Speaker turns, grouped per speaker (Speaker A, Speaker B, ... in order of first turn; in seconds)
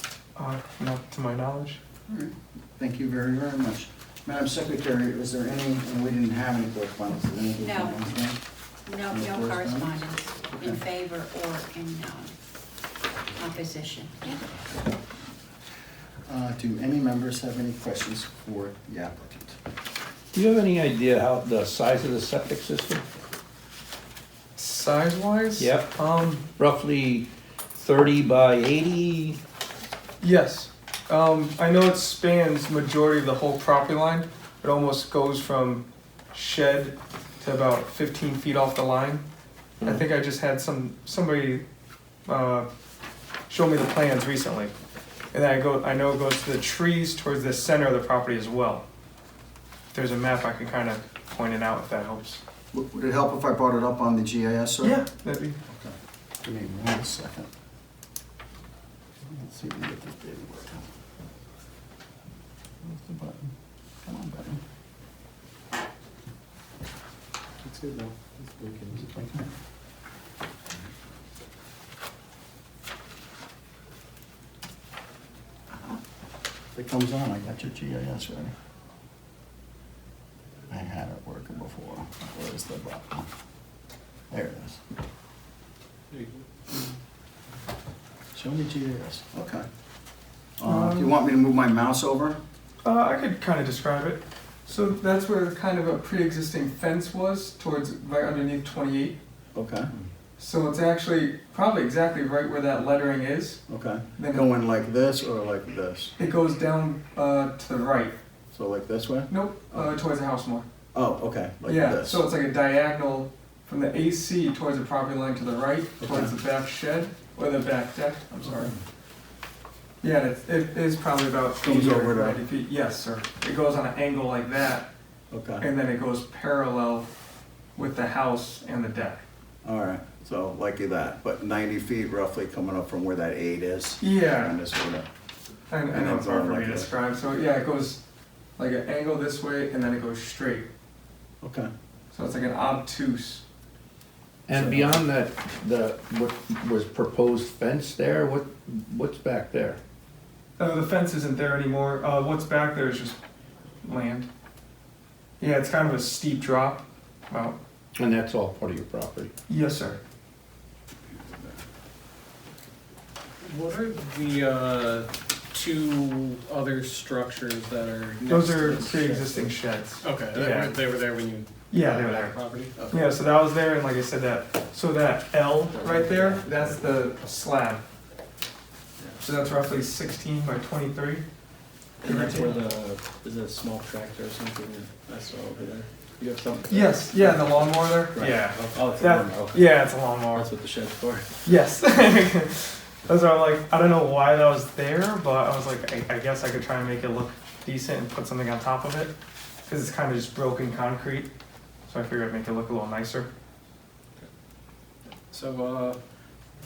Speaker A: 0.4-1.8, 24.6-26.5, 30.2-39.2, 39.8-41.6, 42.3-42.7, 43.5-44.7, 45.3-48.9, 49.9-52.4, 54.8-55.6, 90.6-91.2, 92.8-99.2, 100.4-103.6, 104.2-104.5, 106.2-108.2, 109.3-110.7, 111.7-118.7, 120.0-124.9, 125.6-127.1, 127.8-129.2, 134.0-134.6, 135.7-138.0, 138.6-140.7, 142.1-143.4, 150.6-153.2, 153.8-154.3, 155.4-157.6, 159.5-160.0, 168.3-170.8, 171.7-177.8, 179.2-181.2, 182.0-182.6, 186.7-190.5, 191.4-199.2, 199.7-201.3, 201.9-203.3
Speaker B: 2.1-8.4, 9.1-10.0, 10.6-10.8, 14.3-14.7, 16.3-19.6, 52.7-55.0, 55.7-57.5, 59.2-60.9, 62.8-63.5, 64.0-64.6, 69.0-69.5, 76.7-78.5, 80.7-83.3, 84.3-84.8, 88.3-89.7, 90.6-92.4, 99.5-99.9, 103.7-106.2, 108.5-109.9, 110.9-112.2, 116.0-116.3, 118.5-118.8, 121.6-122.4, 125.3-125.7, 129.6-135.1, 135.9-136.9, 141.4-141.7, 144.5-144.9
Speaker C: 7.5-8.0, 8.8-12.3, 13.4-14.4
Speaker D: 20.3-23.1, 25.6-25.9, 26.6-29.4, 144.5-149.8, 158.0-159.3
Speaker E: 67.6-69.1, 163.4-173.2, 175.8-176.5, 205.3-206.0
Speaker F: 86.1-86.4, 182.0-189.7, 190.3-191.3